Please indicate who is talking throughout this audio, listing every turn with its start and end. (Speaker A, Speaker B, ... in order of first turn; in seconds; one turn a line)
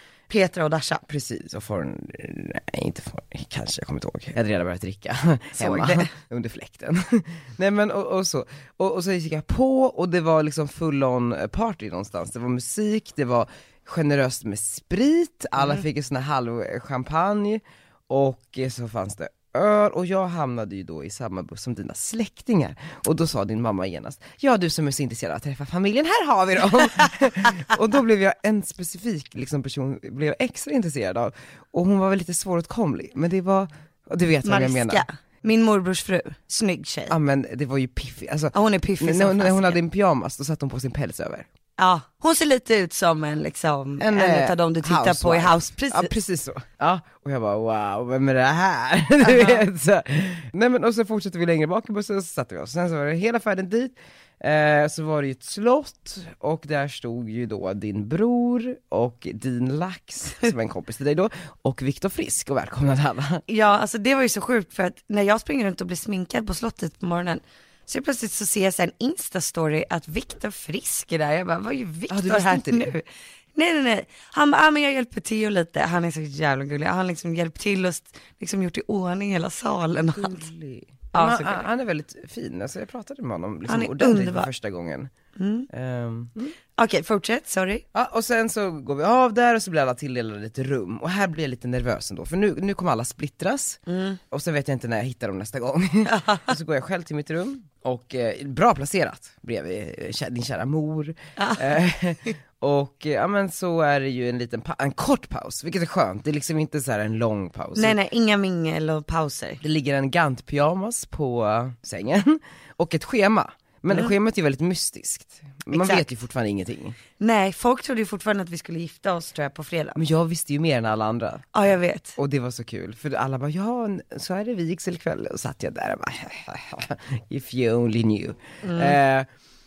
Speaker A: 0.3-1.0
Speaker B: 1.1-35.0
Speaker A: 5.6-6.1
Speaker A: 34.4-37.1
Speaker B: 37.1-41.5
Speaker A: 38.5-39.8
Speaker A: 41.8-46.1
Speaker B: 44.0-63.4
Speaker A: 49.2-49.6
Speaker A: 63.5-80.5
Speaker B: 72.1-72.9
Speaker B: 80.1-85.1
Speaker A: 81.1-81.7
Speaker A: 83.7-84.5
Speaker A: 85.4-85.7
Speaker B: 85.7-86.3
Speaker A: 86.4-87.8
Speaker B: 87.9-93.8
Speaker A: 93.9-94.2
Speaker B: 94.3-108.0
Speaker A: 96.0-96.6
Speaker A: 101.4-101.7
Speaker A: 107.8-109.6
Speaker B: 109.6-117.0
Speaker A: 115.7-116.1
Speaker A: 117.2-120.0
Speaker B: 120.0-121.5
Speaker A: 121.5-122.2
Speaker B: 122.2-129.3
Speaker A: 128.6-129.0